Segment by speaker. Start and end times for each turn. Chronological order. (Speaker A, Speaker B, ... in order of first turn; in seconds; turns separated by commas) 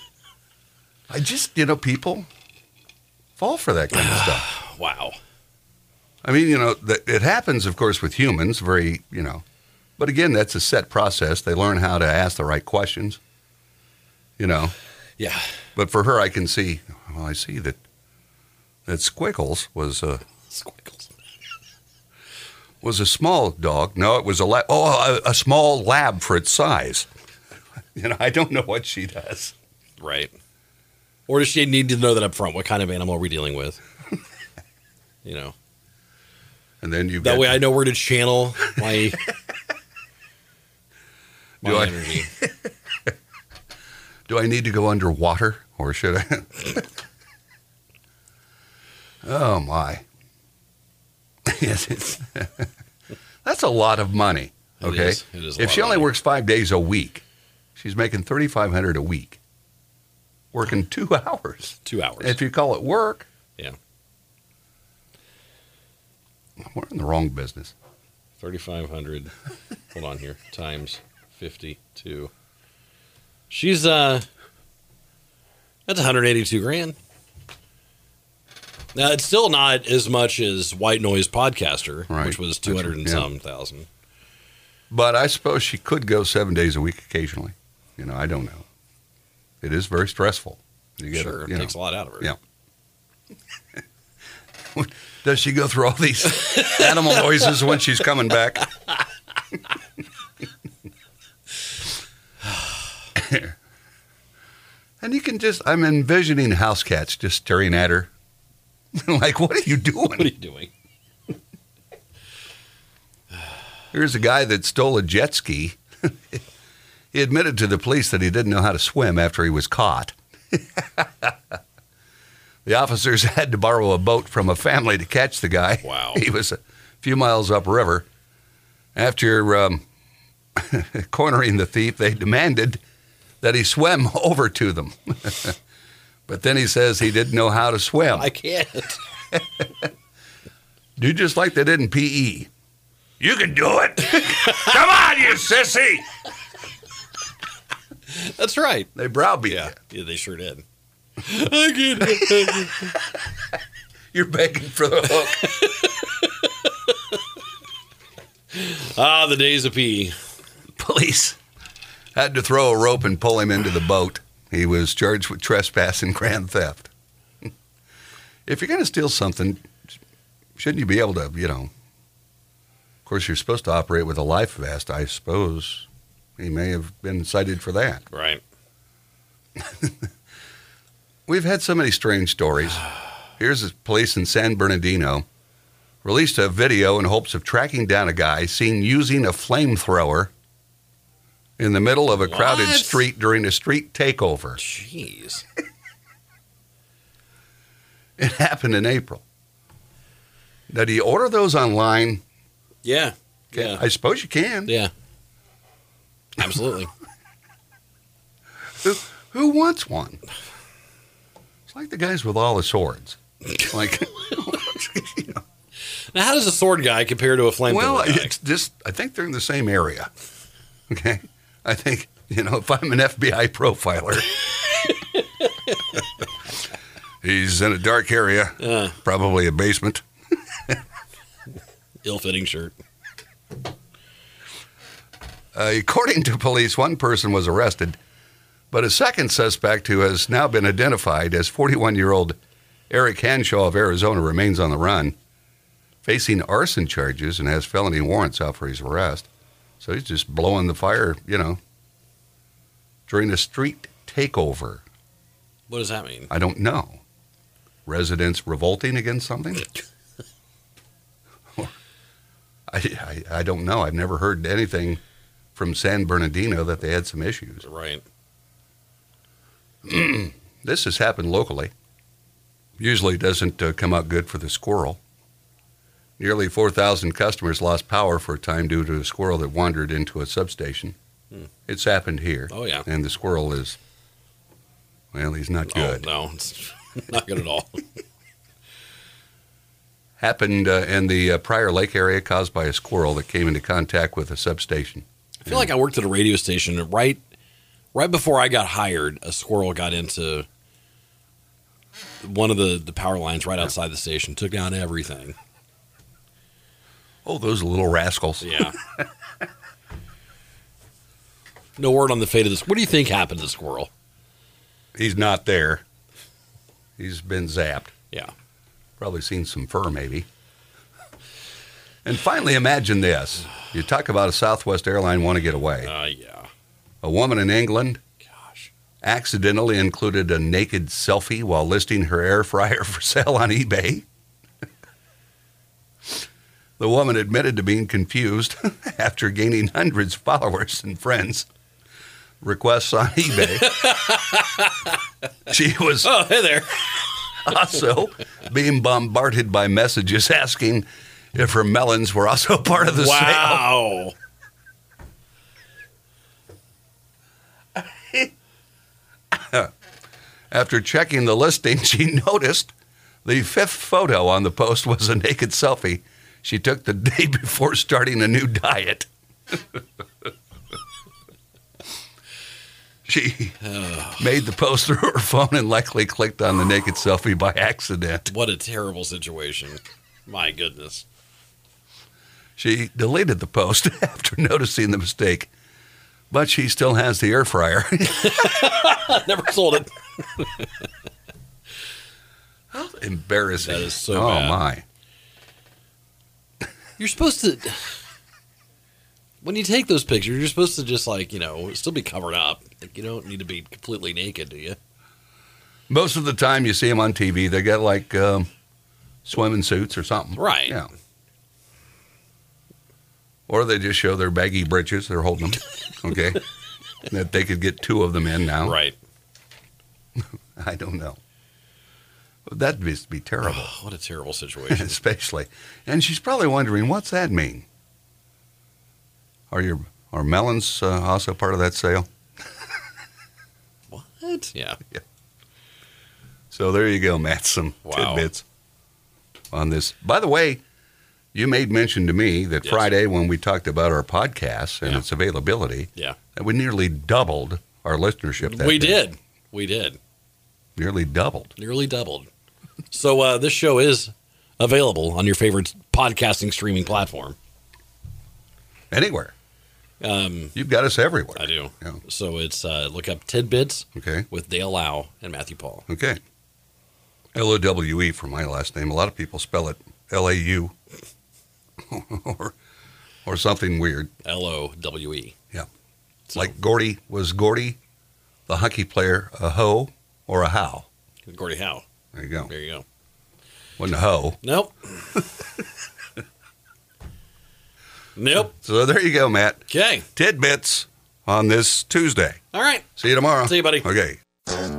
Speaker A: 1.1-2.3, Speaker A: 3.4-4.5, Speaker B: 3.9-5.2, Speaker A: 6.2-9.4, Speaker A: 10.0-13.2, Speaker A: 14.4-14.7, Speaker B: 15.2-15.5, Speaker A: 15.8-17.8, Speaker A: 18.9-20.2, Speaker B: 20.5-21.1, Speaker A: 22.8-27.1, Speaker A: 27.9-29.5, Speaker B: 30.0-30.3, Speaker B: 31.3-33.8, Speaker B: 35.2-35.5, Speaker A: 36.8-37.7, Speaker B: 37.2-39.2, Speaker B: 41.6-42.3, Speaker A: 41.6-42.3, Speaker A: 44.3-46.8, Speaker A: 49.2-50.0, Speaker A: 51.5-52.7, Speaker A: 53.4-57.2, Speaker B: 54.8-56.1, Speaker A: 57.8-59.4, Speaker A: 60.5-63.3, Speaker B: 61.8-62.4, Speaker A: 66.6-67.7, Speaker B: 68.4-69.3, Speaker B: 69.9-72.3, Speaker B: 73.5-74.2, Speaker B: 75.9-77.0, Speaker B: 78.9-83.9, Speaker A: 82.1-83.3, Speaker A: 84.9-88.6, Speaker A: 89.6-92.3, Speaker B: 91.1-92.3, Speaker A: 94.7-98.7, Speaker A: 103.1-103.5, Speaker A: 105.0-108.1, Speaker A: 108.9-110.3, Speaker B: 110.0-110.7, Speaker A: 113.9-116.4, Speaker A: 117.1-121.3, Speaker A: 122.6-128.1, Speaker B: 125.8-126.2, Speaker A: 128.9-129.8, Speaker A: 130.6-132.8, Speaker A: 133.4-135.6, Speaker A: 136.3-138.3, Speaker B: 138.1-139.0, Speaker A: 139.3-139.7, Speaker A: 141.0-142.5, Speaker A: 143.2-146.1, Speaker B: 148.1-148.9, Speaker A: 148.9-149.7, Speaker B: 149.5-150.6, Speaker B: 151.2-152.9, Speaker A: 152.1-152.5, Speaker A: 154.1-155.6, Speaker B: 155.4-157.2, Speaker B: 158.5-160.1, Speaker A: 160.8-161.4, Speaker A: 162.2-166.9, Speaker A: 168.4-169.7, Speaker A: 170.6-171.7, Speaker A: 173.0-175.9, Speaker A: 176.4-178.0, Speaker B: 178.1-178.4, Speaker A: 181.3-182.8, Speaker A: 183.4-185.2, Speaker A: 186.0-190.3, Speaker A: 191.6-194.6, Speaker B: 192.2-193.1, Speaker B: 194.6-195.4, Speaker A: 198.2-199.2, Speaker A: 200.7-202.2, Speaker B: 202.8-203.8, Speaker A: 203.5-204.7, Speaker B: 204.7-204.9, Speaker B: 206.4-206.9, Speaker A: 208.8-210.2, Speaker A: 211.7-215.4, Speaker B: 216.1-218.3, Speaker A: 217.7-220.1, Speaker A: 220.9-224.3, Speaker B: 224.8-225.7, Speaker A: 227.2-230.0, Speaker B: 228.6-228.9, Speaker B: 232.0-232.8, Speaker A: 235.5-238.0, Speaker A: 238.7-242.4, Speaker A: 242.9-245.1, Speaker A: 246.0-249.3, Speaker A: 249.8-251.6, Speaker A: 253.1-254.8, Speaker B: 255.7-256.3, Speaker A: 256.3-257.0, Speaker A: 257.9-259.8, Speaker A: 262.7-265.0, Speaker A: 265.5-267.6, Speaker B: 267.6-268.0, Speaker A: 269.8-271.7, Speaker A: 272.8-275.0, Speaker A: 276.2-280.9, Speaker A: 281.7-283.8, Speaker B: 282.5-282.9, Speaker A: 285.1-286.1, Speaker B: 285.7-287.8, Speaker A: 290.2-295.7, Speaker B: 295.4-297.2, Speaker B: 297.9-300.4, Speaker B: 302.2-305.3, Speaker A: 307.2-308.8, Speaker B: 308.4-308.7, Speaker B: 311.8-313.9, Speaker A: 314.9-315.8, Speaker A: 317.0-317.9, Speaker A: 319.0-320.2, Speaker A: 322.0-325.9, Speaker B: 325.8-326.5, Speaker A: 327.0-328.0, Speaker B: 328.2-328.7, Speaker A: 329.0-334.0, Speaker A: 336.8-341.5, Speaker A: 342.4-343.7, Speaker B: 343.4-344.9, Speaker A: 345.5-346.1, Speaker B: 346.0-347.5, Speaker A: 347.4-353.7, Speaker B: 352.8-354.1, Speaker A: 357.8-358.3, Speaker A: 359.3-359.7, Speaker A: 360.5-362.7, Speaker A: 363.2-369.8, Speaker A: 373.0-373.6, Speaker B: 373.6-374.3, Speaker A: 374.2-378.3, Speaker B: 378.3-381.1, Speaker A: 382.6-385.5, Speaker A: 386.3-388.5, Speaker B: 388.1-390.7, Speaker A: 392.7-394.8, Speaker B: 393.6-394.6, Speaker B: 397.0-397.9, Speaker B: 399.4-404.8, Speaker A: 405.9-408.5, Speaker A: 409.2-410.9, Speaker B: 410.4-410.8, Speaker A: 413.5-416.4, Speaker A: 417.1-418.8, Speaker B: 418.6-418.9, Speaker A: 420.6-421.2, Speaker A: 422.4-423.7, Speaker B: 423.4-425.0, Speaker A: 424.7-427.6, Speaker A: 429.5-432.1, Speaker B: 433.9-434.8, Speaker A: 436.5-438.4, Speaker B: 437.9-438.3, Speaker A: 439.5-440.6, Speaker A: 441.3-449.1, Speaker B: 442.6-442.9, Speaker B: 448.4-450.0, Speaker A: 450.8-451.5, Speaker B: 451.6-452.3, Speaker B: 452.9-457.4, Speaker A: 458.9-459.3, Speaker B: 460.0-460.6, Speaker A: 460.5-462.0, Speaker B: 461.4-465.8, Speaker A: 463.9-464.3, Speaker A: 465.9-466.2, Speaker A: 467.3-470.7, Speaker A: 471.9-472.5, Speaker A: 473.2-474.1, Speaker B: 474.2-475.3, Speaker A: 476.3-477.8, Speaker A: 478.5-480.9, Speaker B: 481.3-481.8, Speaker A: 482.1-482.5, Speaker B: 482.5-482.8, Speaker A: 483.8-484.4, Speaker B: 484.4-485.2, Speaker B: 488.1-488.5, Speaker A: 488.4-492.4, Speaker B: 489.7-490.1, Speaker B: 492.5-492.9, Speaker A: 493.0-494.2, Speaker B: 493.4-493.9